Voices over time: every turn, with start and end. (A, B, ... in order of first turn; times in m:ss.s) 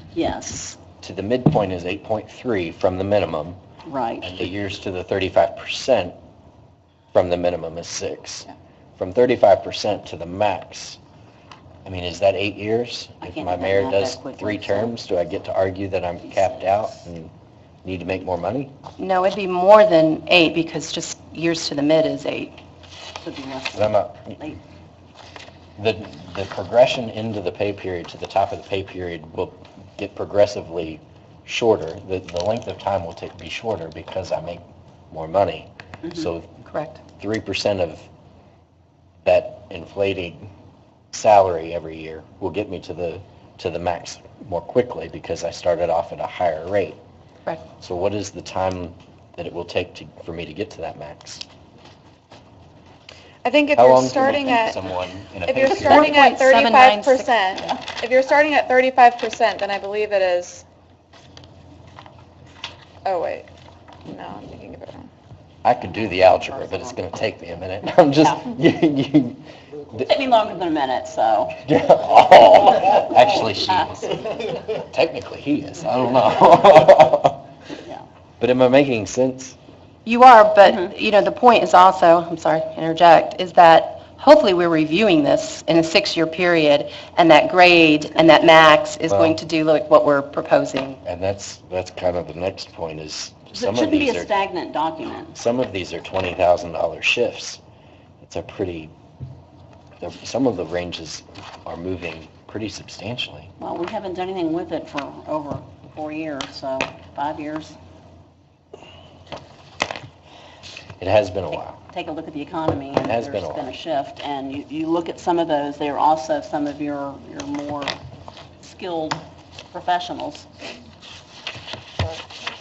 0:00.1-0:00.8 A
0:01.0-0:03.6 B
0:03.9-0:04.4 A
0:04.2-0:06.2 B
0:07.1-0:11.0 B
0:11.8-0:17.3 B
0:13.2-0:14.9 A
0:16.2-0:17.1 A
0:17.8-0:18.7 B
0:19.0-0:22.6 C
0:23.2-0:24.6 A
0:23.7-0:24.4 B
0:25.8-0:36.5 B
0:36.7-0:37.0 C
0:37.2-0:38.1 B
0:39.2-0:40.4 B
0:41.1-0:47.0 B
0:47.7-0:51.4 B
0:53.4-0:54.9 D
0:53.7-0:56.2 B
0:55.4-1:00.6 D
0:55.7-0:57.3 C
1:03.0-1:03.5 D
1:04.1-1:05.1 D
1:05.6-1:10.1 B
1:08.2-1:08.5 A
1:10.0-1:11.6 A
1:11.6-1:17.4 B
1:18.4-1:19.6 B
1:20.0-1:31.0 C
1:20.6-1:20.9 A
1:28.2-1:28.5 A
1:29.1-1:29.4 B
1:31.0-1:34.3 B
1:33.5-1:35.4 A
1:35.3-1:37.6 B
1:38.2-1:38.9 B
1:40.0-1:43.5 B
1:43.6-1:47.8 A
1:51.0-1:51.8 B
1:51.5-1:58.0 A
1:53.0-1:53.7 B
1:58.6-2:00.5 A